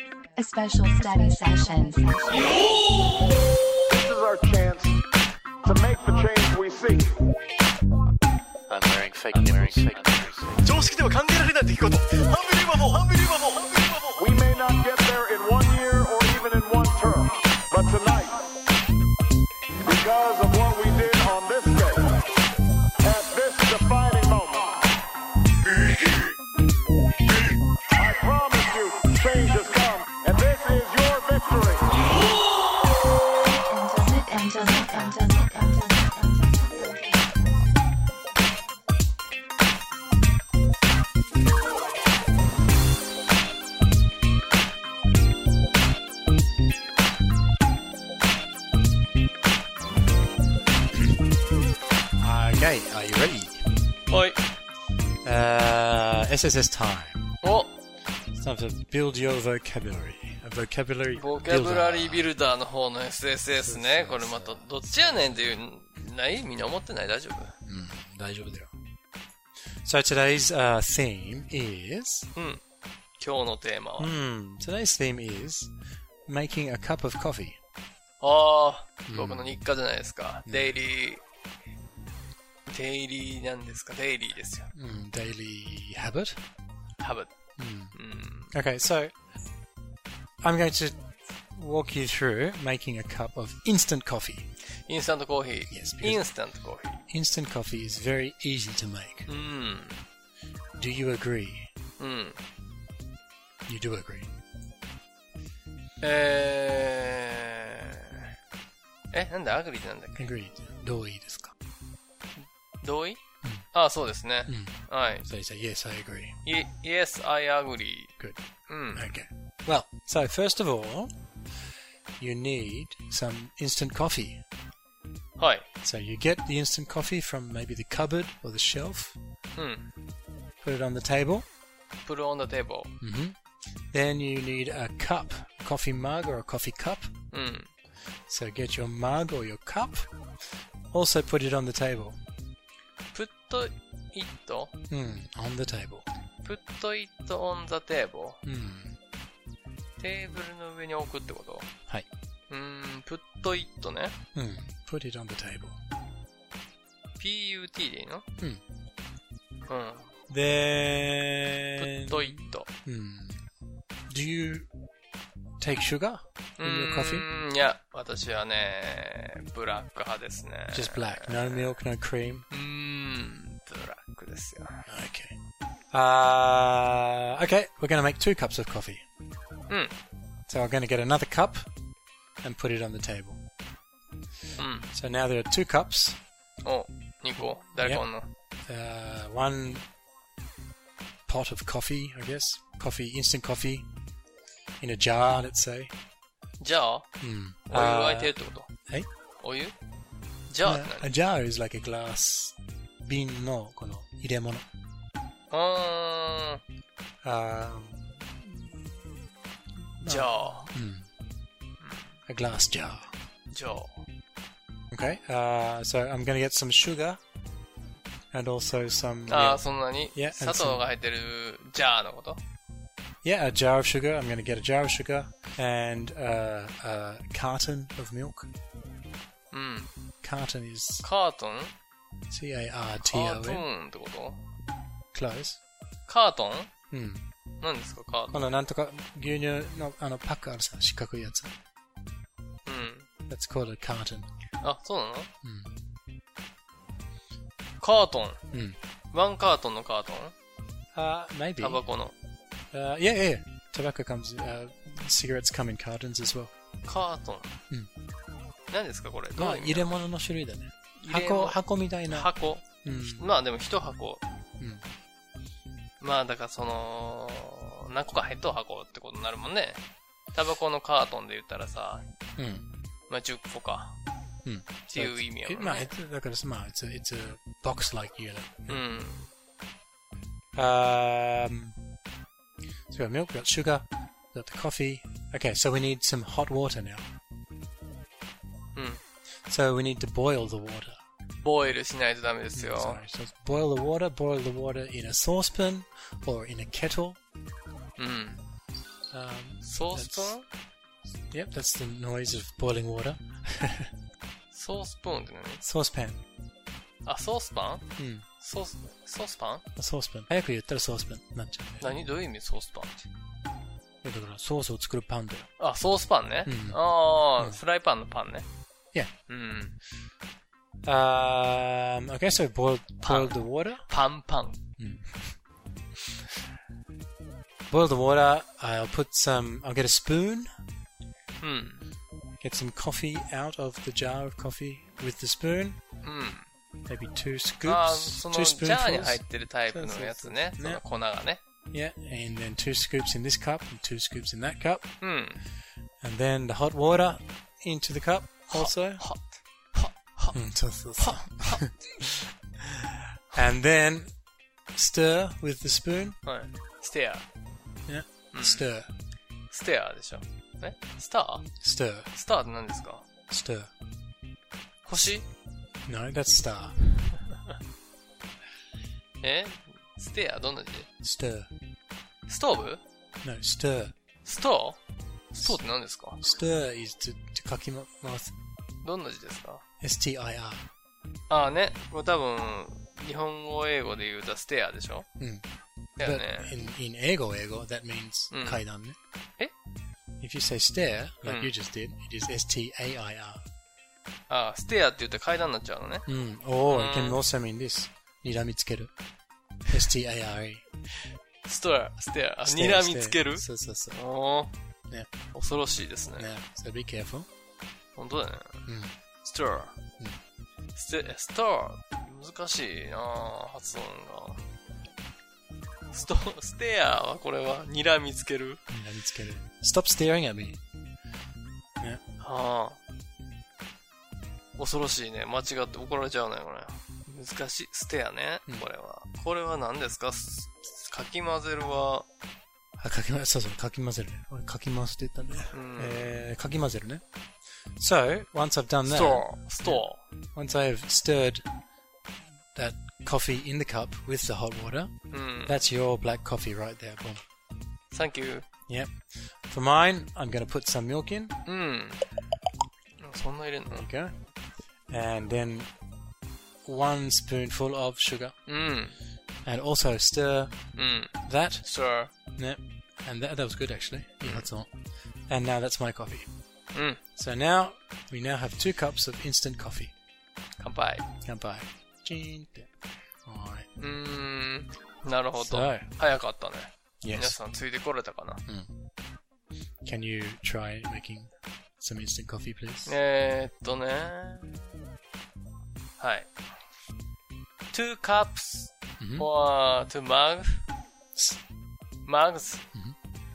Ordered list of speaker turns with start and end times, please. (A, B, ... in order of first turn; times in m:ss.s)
0:00.4-0:02.6 A
0:03.9-0:05.0 B
0:05.6-0:07.1 B
0:08.7-0:14.2 C
0:09.3-0:09.9 D
0:14.2-0:18.5 B
0:19.8-0:22.2 B
0:23.0-0:24.8 B
0:28.0-0:32.0 B
0:33.4-0:37.7 A
0:52.2-0:53.7 D
0:54.1-0:54.4 E
0:55.2-0:57.3 D
0:57.4-0:57.7 E
0:58.3-1:02.3 D
1:01.2-1:07.6 E
1:03.6-1:05.6 D
1:07.7-1:08.8 D
1:09.8-1:12.3 D
1:12.4-1:12.6 E
1:13.2-1:14.1 E
1:14.0-1:15.7 D
1:16.3-1:17.6 D
1:18.2-1:21.2 E
1:19.1-1:19.6 D
1:20.5-1:20.8 D
1:22.7-1:24.7 E
1:24.7-1:26.4 D
1:27.0-1:27.3 E
1:27.6-1:28.0 D
1:27.9-1:28.5 E
1:28.5-1:29.1 D
1:30.4-1:34.5 D
1:34.9-1:37.1 E
1:35.7-1:36.3 D
1:37.1-1:39.3 D
1:39.3-1:40.0 E
1:40.8-1:41.7 D
1:42.0-1:42.4 E
1:43.7-1:44.3 D
1:46.0-1:48.3 E
1:49.1-1:50.3 E
1:50.2-1:51.5 D
1:52.8-1:53.2 E
1:53.7-1:55.3 E
1:54.5-1:56.4 D
1:56.4-1:58.1 E
1:58.7-1:59.1 E
1:58.9-2:01.1 D
2:02.2-2:04.4 D
2:05.4-2:05.7 E
2:05.8-2:09.2 D
2:09.6-2:09.9 E
2:10.6-2:11.5 D
2:12.0-2:13.0 E
2:13.0-2:13.4 D
2:13.9-2:17.1 D
2:17.3-2:17.7 E
2:18.3-2:20.1 D
2:20.9-2:22.2 D
2:23.1-2:24.7 E
2:24.9-2:26.1 D
2:26.4-2:28.4 E
2:28.4-2:29.0 D
2:30.0-2:31.7 E
2:32.5-2:34.2 E
2:34.3-2:35.8 D
2:37.2-2:38.3 E
2:39.7-2:40.1 E
2:40.3-2:43.4 D
2:41.8-2:42.7 E
2:44.1-2:44.7 D
2:45.6-2:47.3 D
2:46.6-2:51.8 E
2:50.7-2:52.5 D
2:52.5-2:54.9 E
2:54.9-2:55.4 D
2:55.9-2:59.0 D
2:59.7-3:00.0 E
3:00.5-3:01.7 D
3:02.4-3:03.4 D
3:04.6-3:04.9 E
3:04.8-3:06.2 D
3:06.6-3:08.3 E
3:07.4-3:08.1 D
3:08.7-3:09.8 D
3:11.3-3:13.9 D
3:14.8-3:15.9 D
3:16.6-3:17.1 E
3:17.2-3:18.4 D
3:17.7-3:18.7 E
3:19.4-3:19.7 E
3:20.5-3:21.1 E
3:20.6-3:24.7 D
3:25.5-3:26.6 E
3:27.2-3:28.9 D
3:30.0-3:31.1 D
3:30.0-3:30.7 E
3:31.8-3:32.2 E
3:32.3-3:33.1 D
3:33.5-3:34.1 E
3:34.9-3:37.2 D
3:38.3-3:40.8 D
3:39.3-3:42.4 E
3:43.2-3:48.5 D
3:49.5-3:49.9 E
3:50.2-3:51.1 D
3:51.0-3:51.7 E
3:52.3-3:53.7 D
3:53.0-3:54.4 E
3:55.1-3:55.6 D
3:56.1-3:56.7 E
3:56.9-3:57.2 D
3:57.6-3:58.5 E
3:58.3-4:01.5 D
4:02.6-4:03.1 E
4:03.3-4:04.3 D
4:04.6-4:05.3 E
4:05.4-4:05.7 D
4:07.8-4:08.4 E
4:08.5-4:08.8 D
4:09.1-4:10.4 E
4:10.9-4:11.8 D
4:11.6-4:12.2 E
4:12.7-4:16.5 D
4:16.8-4:17.6 E
4:18.7-4:19.9 E
4:19.4-4:23.3 D
4:21.0-4:24.2 E
4:24.6-4:24.9 D
4:26.0-4:29.8 E
4:30.3-4:32.1 E
4:32.4-4:32.7 D
4:33.1-4:34.0 E
4:34.4-4:38.8 D
4:34.9-4:35.9 E
4:38.7-4:39.3 E
4:40.6-4:41.8 D
4:42.9-4:47.1 D
4:48.8-4:49.0 E
4:49.5-4:51.0 D
4:51.4-4:53.0 E
4:52.5-4:57.2 D
4:58.0-4:58.4 E
4:59.1-5:00.4 D
4:59.6-5:00.5 E
5:01.3-5:03.9 D
5:04.5-5:05.6 E
5:05.6-5:06.2 D
5:07.0-5:07.9 E
5:08.0-5:08.3 D
5:08.4-5:09.6 E
5:09.8-5:12.0 D
5:11.8-5:13.1 E
5:14.0-5:15.5 D
5:15.6-5:18.5 E
5:16.4-5:16.8 D
5:19.3-5:19.8 E
5:20.8-5:23.9 D
5:23.0-5:24.6 E
5:24.8-5:25.4 D
5:27.7-5:30.5 D
5:31.4-5:31.9 E
5:32.4-5:35.8 D
5:36.0-5:36.5 E
5:36.9-5:40.8 D
5:37.6-5:41.4 E
5:41.7-5:44.9 D
5:45.0-5:45.4 E
5:46.0-5:49.1 D
5:48.5-5:50.4 E
5:50.3-5:54.1 D
5:51.0-5:51.6 E
5:54.7-5:56.2 D
5:56.2-5:57.3 E
5:57.9-5:58.9 D
5:58.3-5:58.7 E
5:59.5-6:01.5 E
6:01.6-6:02.1 D
6:02.1-6:03.0 E
6:03.3-6:03.7 D
6:04.8-6:05.3 E
6:05.8-6:06.8 D
6:09.2-6:10.9 E
6:11.0-6:11.5 D
6:12.3-6:12.8 E
6:13.2-6:13.9 D
6:14.2-6:14.8 E
6:15.3-6:16.2 E
6:16.2-6:18.4 D
6:18.8-6:19.6 E
6:19.8-6:20.6 D
6:21.3-6:25.1 E
6:25.2-6:25.4 D
6:26.0-6:26.6 E
6:26.0-6:29.0 D
6:28.3-6:28.6 E
6:30.2-6:33.4 D
6:31.2-6:31.5 E
6:34.3-6:36.1 E
6:36.1-6:38.9 D
6:36.7-6:37.2 E
6:39.7-6:40.6 D
6:41.4-6:44.5 E
6:42.4-6:44.0 D
6:45.3-6:46.3 E
6:46.2-6:47.3 D
6:48.0-6:48.7 E
6:48.7-6:49.0 D
6:49.2-6:49.8 E
6:50.7-6:54.4 E
6:55.9-6:58.6 E
6:58.7-7:00.6 D
7:02.2-7:02.8 E
7:04.6-7:12.1 E
7:12.8-7:17.0 D
7:15.5-7:16.2 E
7:17.8-7:21.5 D
7:18.8-7:20.0 E
7:22.6-7:24.9 D
7:25.1-7:25.6 E
7:25.5-7:27.2 D
7:27.9-7:28.5 E
7:28.7-7:28.9 D
7:29.5-7:31.4 D
7:31.4-7:32.0 E
7:33.0-7:33.9 E
7:33.7-7:34.2 D
7:34.9-7:35.7 D
7:36.6-7:38.4 D
7:38.5-7:39.0 E
7:39.4-7:40.7 D
7:40.8-7:42.1 E
7:41.2-7:41.7 D
7:42.3-7:44.7 D
7:44.2-7:44.5 E
7:45.3-7:46.3 D
7:46.7-7:47.0 E
7:47.2-7:49.9 D
7:50.6-7:51.1 E
7:51.2-7:52.7 D
7:53.3-7:53.7 D
7:53.8-7:58.4 E
7:55.3-7:55.9 D
7:57.0-7:57.4 D
7:58.5-7:58.7 D
7:59.8-8:03.0 D
8:02.9-8:04.7 E
8:06.0-8:06.3 E
8:07.7-8:10.6 E
8:09.0-8:09.3 D
8:12.0-8:12.6 E